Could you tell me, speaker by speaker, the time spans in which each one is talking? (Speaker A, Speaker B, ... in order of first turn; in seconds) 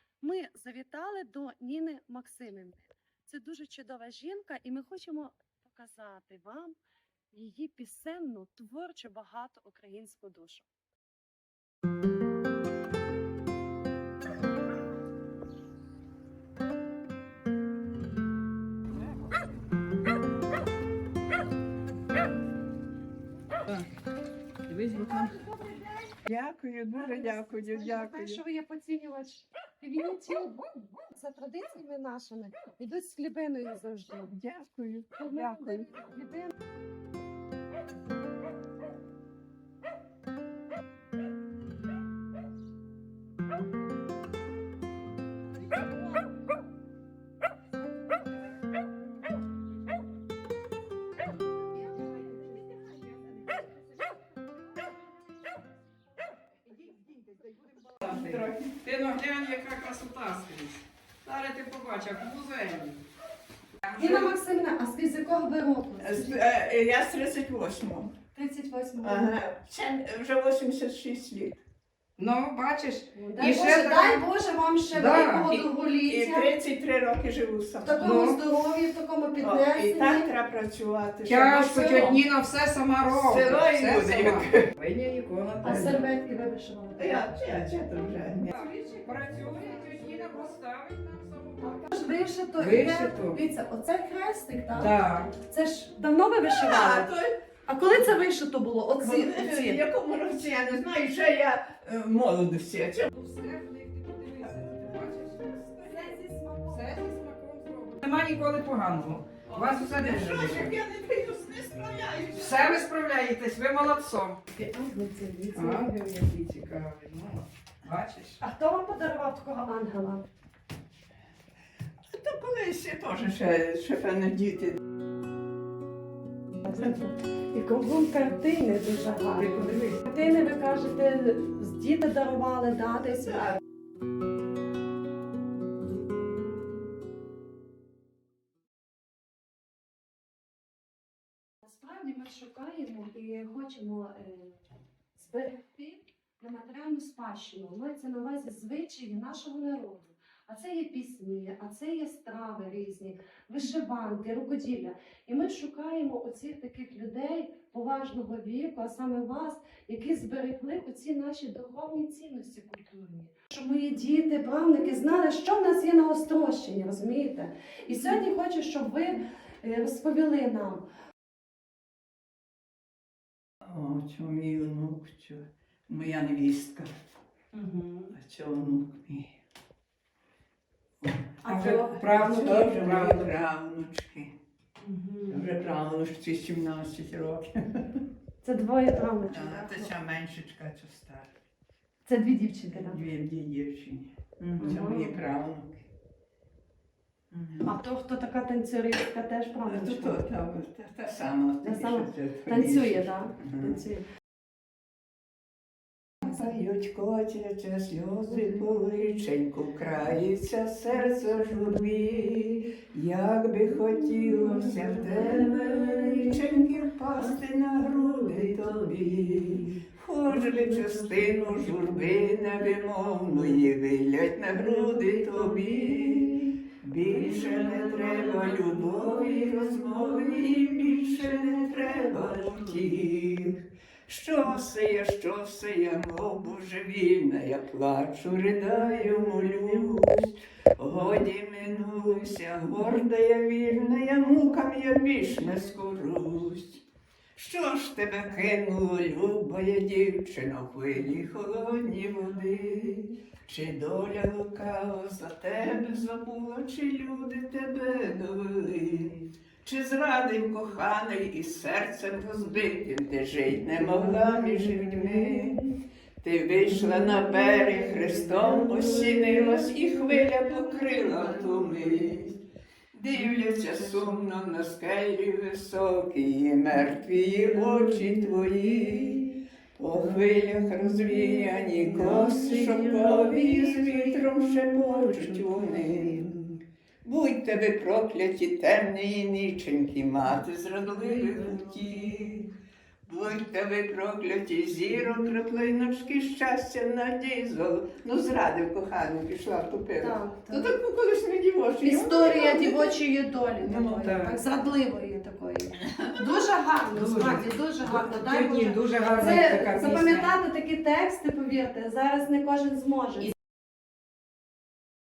Speaker A: 0.2-6.8, 7.3-10.7, 24.9-26.1, 26.9-34.3, 35.2-36.5, 64.0-66.3, 68.3-69.3, 73.1-76.5, 77.8-80.3, 85.6-87.3, 91.6-97.1, 97.7-99.8, 105.8-107.0, 114.5-116.0, 118.4-120.2, 126.6-133.5, 141.6-144.6, 145.2-170.8, 177.5-178.1, 181.4-182.7, 184.8-185.5, 188.4-189.9, 192.1-193.0, 194.6-195.2, 197.6-200.2, 201.6-204.0, 300.0-300.8, 301.8-313.3
Speaker B: 24.7-25.3, 57.7-63.0, 63.9-64.3, 72.2-74.2, 74.9-75.5, 78.0-78.4, 81.2-86.0, 88.5-91.9, 92.6-93.4, 94.7-95.3, 103.1-110.7, 112.3-114.4, 115.5-118.4, 129.3-130.0, 181.4-183.3, 194.4-194.8, 304.0-304.4, 306.9-310.3
Speaker C: 26.2-28.4, 34.3-35.9, 58.0-58.8, 66.0-68.1, 69.0-71.6, 75.5-78.2, 79.4-82.2, 83.1-84.7, 87.0-88.6, 96.4-97.3, 99.0-103.1, 109.5-112.7, 122.1-124.8, 173.6-176.9, 178.1-179.3, 181.0-181.4, 182.0-184.3, 185.3-188.0, 189.3-191.3, 192.7-195.8, 197.3-197.7, 199.7-203.8, 206.2-246.8, 247.3-272.4, 272.9-286.4, 287.0-292.5, 293.1-303.0, 303.6-304.1, 306.0-306.3